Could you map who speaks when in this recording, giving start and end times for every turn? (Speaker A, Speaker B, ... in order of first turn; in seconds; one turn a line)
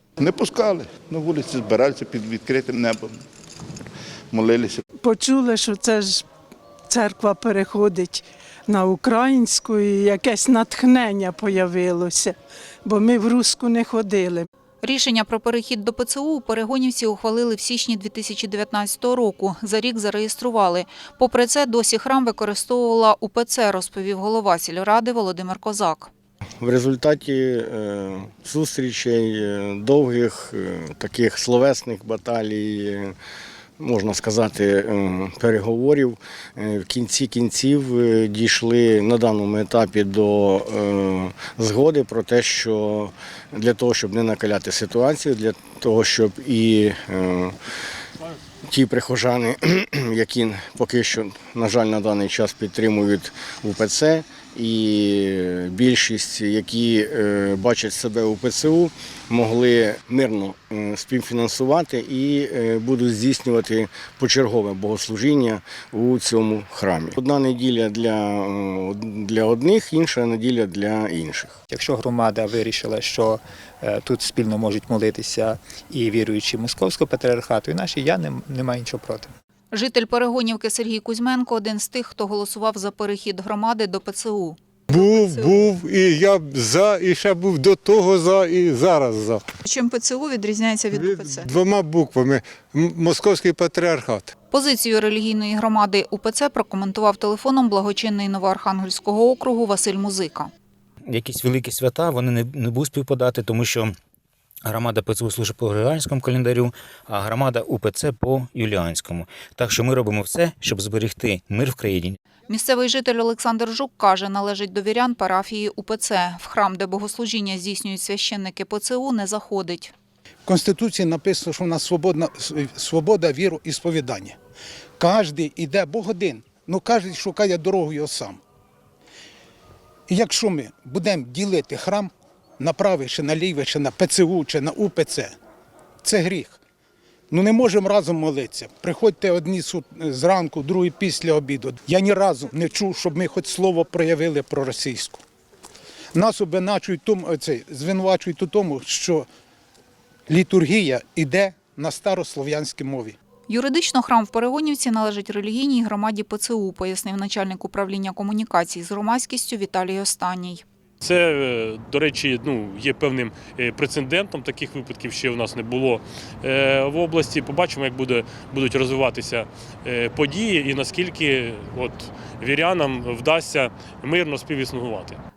Speaker A: 0.2-3.2
Speaker A: 4.3-4.8
Speaker B: 5.0-6.2
Speaker B: 6.9-14.5
Speaker C: 14.8-26.1
Speaker D: 26.6-33.1
Speaker D: 33.8-47.5
Speaker D: 48.6-71.5
Speaker E: 71.7-79.3
Speaker C: 79.7-85.6
Speaker F: 84.9-89.4
Speaker C: 89.6-91.5
Speaker F: 90.9-94.3
Speaker C: 94.5-100.5
Speaker G: 101.0-103.9
Speaker G: 104.6-112.2
Speaker C: 112.5-119.9
Speaker H: 120.4-124.4
Speaker H: 125.0-128.4
Speaker H: 130.1-135.3
Speaker H: 136.0-136.6
Speaker H: 137.3-145.2
Speaker H: 146.1-149.2
Speaker H: 150.3-153.2
Speaker C: 153.5-160.6
Speaker I: 161.0-175.2